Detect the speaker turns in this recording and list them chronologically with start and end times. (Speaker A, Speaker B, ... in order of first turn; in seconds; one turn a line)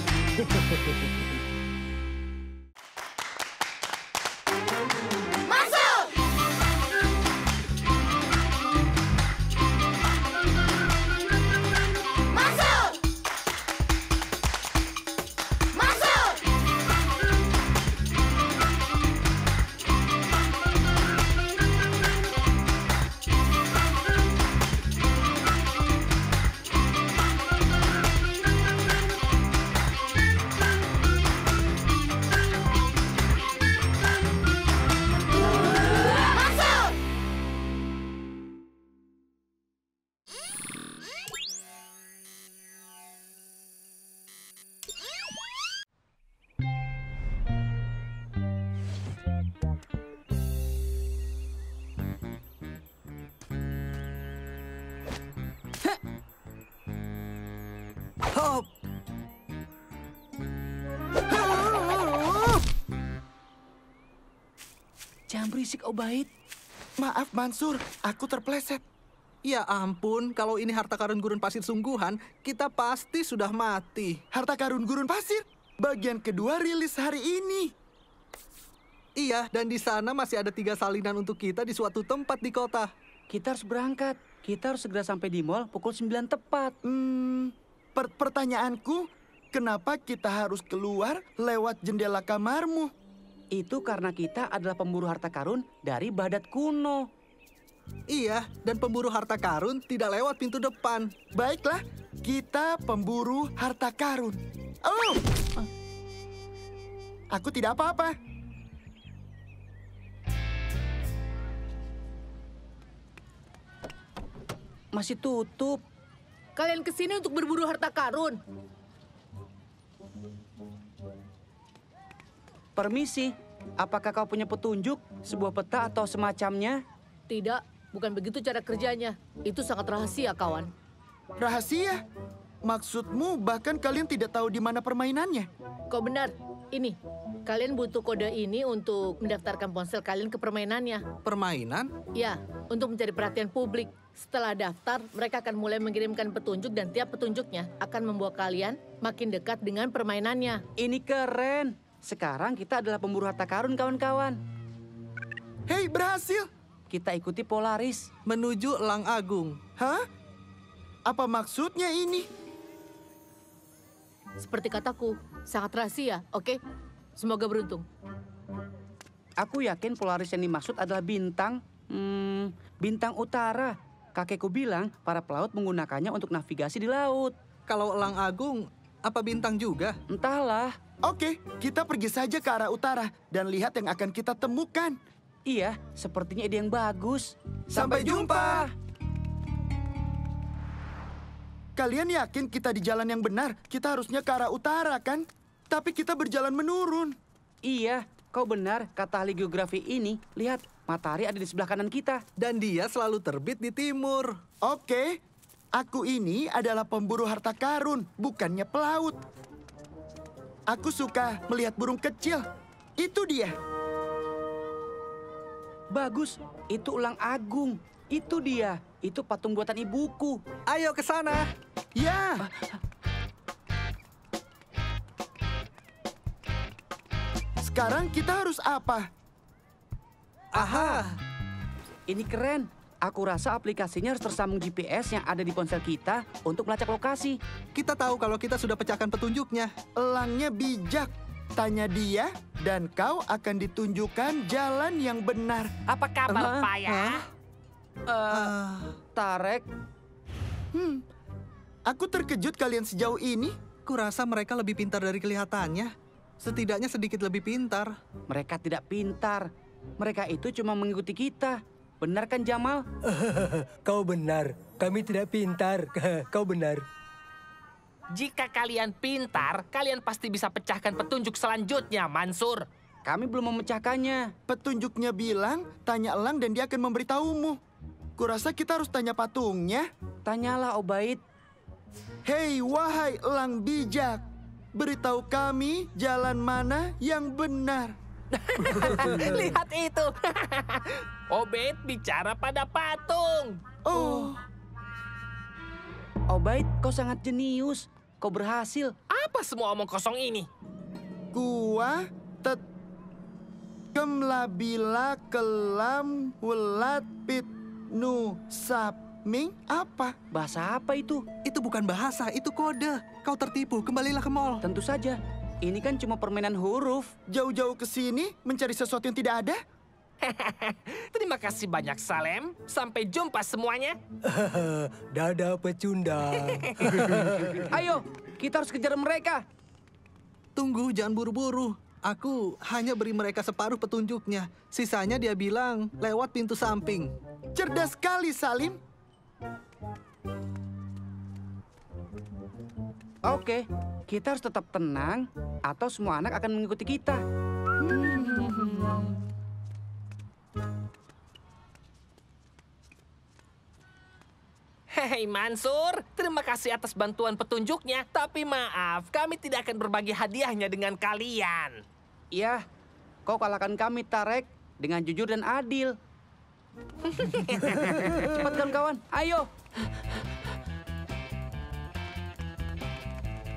Speaker A: 0.4-1.2
Speaker B: 58.3-58.7
Speaker C: 65.3-66.3
Speaker D: 67.0-68.8
Speaker B: 69.5-74.2
Speaker D: 74.3-77.7
Speaker B: 79.2-82.9
Speaker C: 83.3-86.8
Speaker D: 86.8-92.9
Speaker C: 93.5-97.1
Speaker B: 98.1-101.1
Speaker D: 101.4-105.6
Speaker D: 107.3-108.1
Speaker C: 114.9-115.8
Speaker E: 116.6-118.4
Speaker C: 122.8-126.8
Speaker E: 127.3-130.7
Speaker D: 131.4-132.0
Speaker D: 132.6-135.5
Speaker E: 135.9-141.0
Speaker B: 141.2-141.9
Speaker E: 142.2-150.6
Speaker C: 150.8-154.4
Speaker D: 155.7-156.5
Speaker C: 156.9-158.1
Speaker B: 158.3-159.6
Speaker D: 159.8-160.1
Speaker D: 161.1-162.3
Speaker E: 164.4-166.6
Speaker E: 167.2-167.8
Speaker C: 169.4-177.3
Speaker B: 177.7-180.0
Speaker C: 180.1-180.8
Speaker D: 181.0-185.0
Speaker C: 185.5-188.7
Speaker D: 187.7-188.7
Speaker D: 191.8-197.2
Speaker C: 197.7-202.2
Speaker B: 202.4-204.3
Speaker D: 204.6-205.2
Speaker D: 205.8-209.2
Speaker D: 210.7-212.5
Speaker D: 213.0-213.6
Speaker C: 215.9-220.4
Speaker B: 220.7-221.4
Speaker D: 222.0-222.4
Speaker C: 222.4-222.7
Speaker D: 227.6-229.1
Speaker C: 230.6-231.0
Speaker B: 230.6-231.2
Speaker C: 232.1-237.4
Speaker B: 237.8-239.7
Speaker D: 240.0-245.7
Speaker F: 245.9-247.2
Speaker B: 246.3-247.3
Speaker C: 248.1-248.5
Speaker B: 248.3-248.9
Speaker C: 249.1-249.7
Speaker D: 250.7-251.0
Speaker D: 251.9-253.6
Speaker B: 253.9-257.9
Speaker C: 258.3-262.8
Speaker A: 263.1-266.9
Speaker F: 268.1-272.6
Speaker C: 273.1-274.3
Speaker D: 274.5-277.6
Speaker D: 278.2-279.9
Speaker C: 280.2-281.2
Speaker D: 282.3-284.2
Speaker D: 284.8-287.9
Speaker F: 288.3-293.6
Speaker D: 289.1-289.4
Speaker D: 293.9-294.4
Speaker C: 296.3-298.9
Speaker F: 299.1-300.5
Speaker D: 301.3-302.6
Speaker D: 303.9-310.2
Speaker C: 310.3-311.2
Speaker B: 311.5-314.6
Speaker C: 314.6-317.1
Speaker D: 317.3-319.6
Speaker F: 320.2-324.0
Speaker A: 324.2-327.7
Speaker C: 327.6-329.4
Speaker B: 330.6-337.1
Speaker D: 337.6-338.8
Speaker C: 343.3-347.2
Speaker D: 347.8-348.7
Speaker C: 348.1-349.1
Speaker F: 354.9-361.8
Speaker C: 362.3-362.6
Speaker C: 363.3-365.9
Speaker F: 367.2-368.4
Speaker C: 367.7-369.5